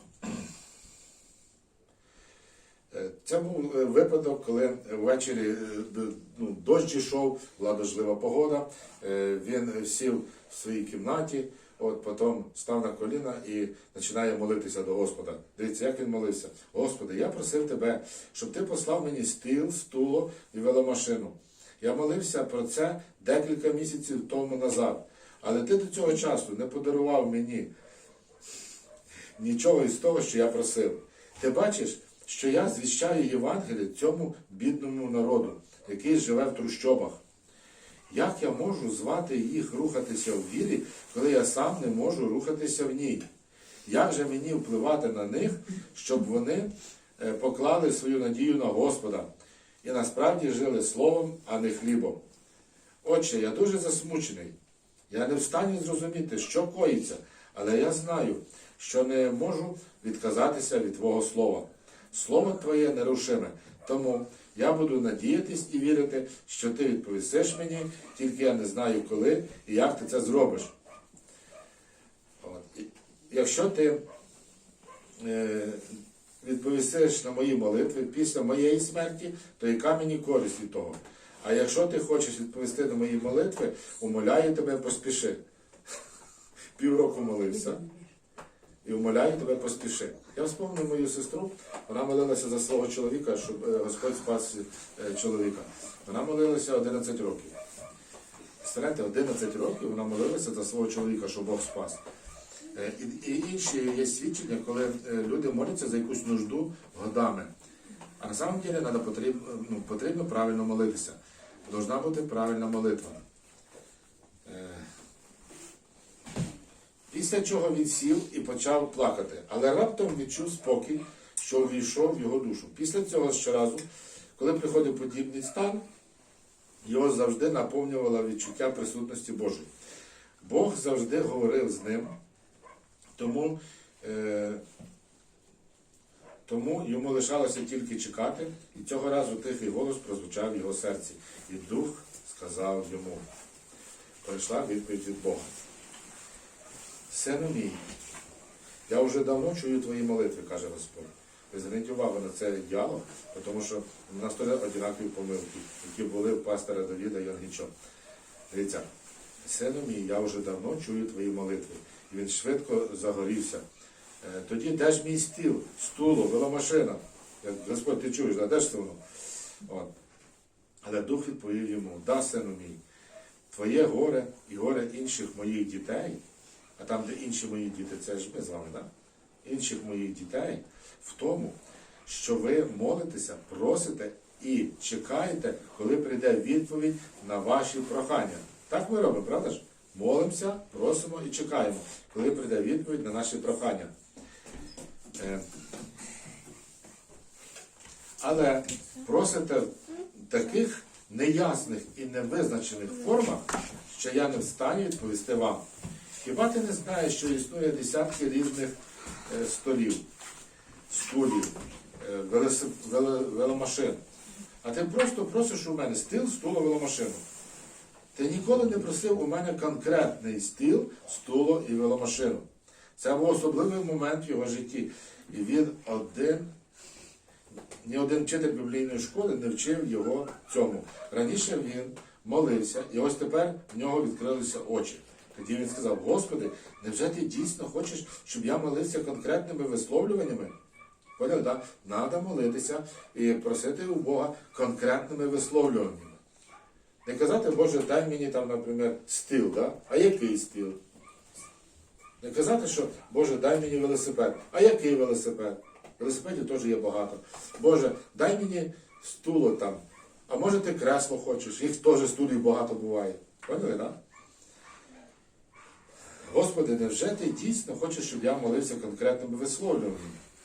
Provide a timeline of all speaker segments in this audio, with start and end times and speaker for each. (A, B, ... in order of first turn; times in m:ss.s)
0:02.9-0:27.7 A
0:29.4-0:37.2 A
0:38.1-0:43.2 A
0:43.8-0:49.3 A
0:49.8-0:52.2 A
0:53.0-0:54.5 A
0:55.1-1:10.7 A
1:12.4-1:14.0 A
1:15.2-1:25.4 A
1:26.8-1:28.0 A
1:28.8-1:37.5 A
1:38.6-1:42.0 A
1:42.7-1:47.5 A
1:48.2-1:53.2 A
1:54.4-1:54.8 A
1:57.1-2:03.8 A
2:04.4-2:05.8 A
2:06.8-2:09.7 A
2:10.4-2:12.1 A
2:13.2-2:14.6 A
2:16.5-2:23.2 A
2:24.2-2:25.6 A
2:27.1-2:27.9 A
2:28.9-2:37.7 A
2:38.5-2:38.9 A
2:39.4-2:43.6 A
2:44.2-2:49.0 A
2:50.8-2:52.8 A
2:53.5-2:56.2 A
2:56.8-2:58.9 A
2:59.4-3:13.9 A
3:15.2-3:15.4 A
3:18.2-3:25.6 A
3:26.2-3:28.7 A
3:29.3-3:30.0 A
3:30.9-3:34.0 A
3:34.6-3:37.2 A
3:38.2-3:42.4 A
3:43.0-3:46.5 A
3:47.8-4:00.5 A
4:01.2-4:06.2 A
4:07.0-4:10.8 A
4:12.2-4:24.0 A
4:26.2-4:30.2 A